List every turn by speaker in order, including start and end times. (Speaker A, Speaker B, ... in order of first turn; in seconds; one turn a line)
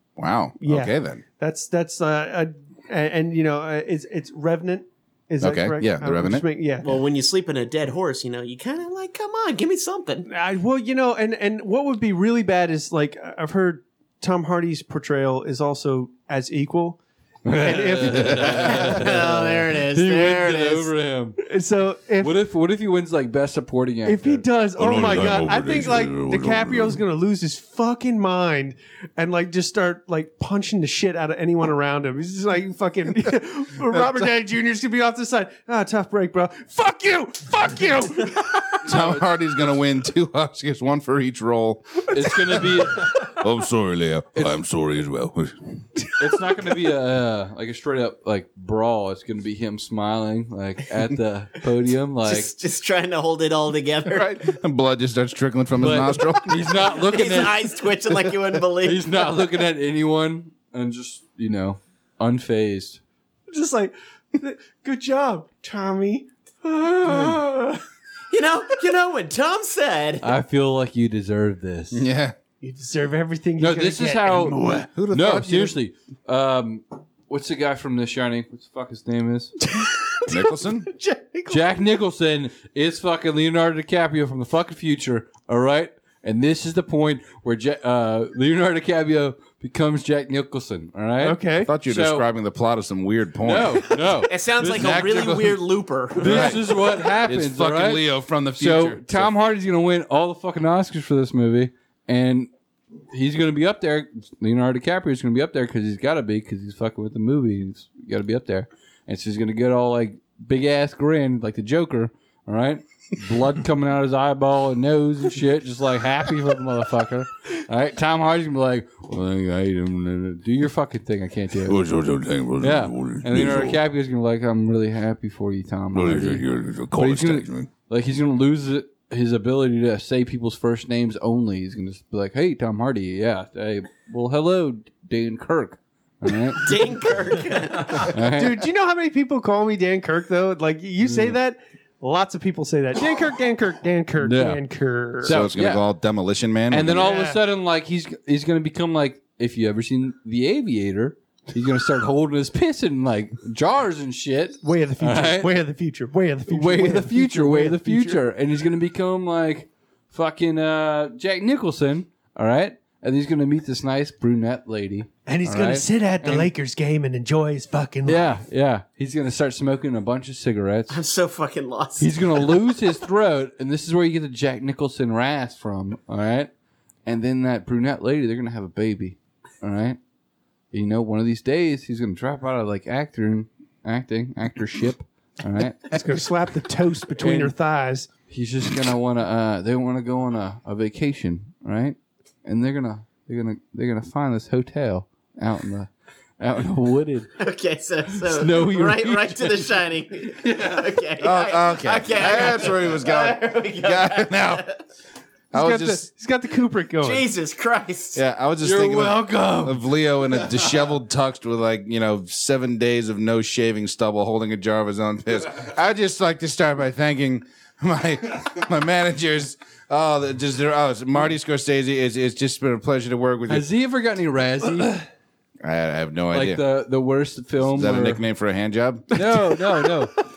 Speaker A: 0.2-1.2
Speaker B: 0.6-7.0
Speaker A: 5.4-6.5
Speaker C: 6.8-10.3
Speaker B: 10.3-19.0
Speaker D: 17.4-21.4
Speaker C: 18.3-20.9
Speaker B: 21.4-22.4
Speaker D: 22.2-24.4
Speaker B: 24.1-38.9
Speaker A: 24.8-27.0
Speaker A: 33.9-34.3
Speaker A: 38.8-45.8
Speaker D: 38.9-39.3
Speaker D: 42.1-43.1
Speaker D: 46.2-52.5
Speaker C: 52.2-54.5
Speaker A: 54.1-56.6
Speaker D: 55.8-57.7
Speaker C: 56.9-59.5
Speaker D: 58.8-63.0
Speaker B: 63.5-67.8
Speaker C: 68.3-70.3
Speaker D: 70.2-72.1
Speaker A: 71.9-72.4
Speaker B: 72.6-74.9
Speaker D: 73.6-79.5
Speaker A: 74.9-75.7
Speaker B: 79.7-81.7
Speaker A: 80.3-80.9
Speaker D: 81.5-92.3
Speaker B: 91.2-91.7
Speaker A: 91.6-94.0
Speaker D: 93.4-95.5
Speaker C: 94.2-96.7
Speaker A: 94.6-95.5
Speaker D: 96.1-102.5
Speaker A: 96.2-99.3
Speaker D: 103.1-121.9
Speaker A: 121.7-123.8
Speaker D: 122.6-137.1
Speaker A: 125.9-127.7
Speaker C: 136.6-138.2
Speaker D: 138.0-138.6
Speaker B: 138.2-145.4
Speaker D: 141.0-141.4
Speaker D: 144.2-144.6
Speaker D: 145.2-145.9
Speaker A: 145.2-147.1
Speaker D: 146.7-155.6
Speaker B: 146.9-147.4
Speaker B: 154.6-158.2
Speaker D: 156.5-166.5
Speaker B: 165.3-168.3
Speaker D: 168.1-171.0
Speaker C: 170.9-172.8
Speaker D: 172.0-176.5
Speaker D: 177.1-180.0
Speaker D: 180.7-186.0
Speaker B: 185.9-188.1
Speaker D: 187.2-187.6
Speaker D: 188.3-197.3
Speaker C: 197.4-204.8
Speaker D: 198.2-199.7
Speaker D: 200.4-200.9
Speaker A: 201.2-204.7
Speaker A: 205.5-206.1
Speaker B: 205.5-207.3
Speaker C: 207.0-208.2
Speaker A: 208.1-223.7
Speaker D: 208.6-210.6
Speaker D: 223.5-225.1
Speaker A: 225.6-226.6
Speaker D: 226.3-228.2
Speaker A: 227.6-229.2
Speaker D: 229.1-230.1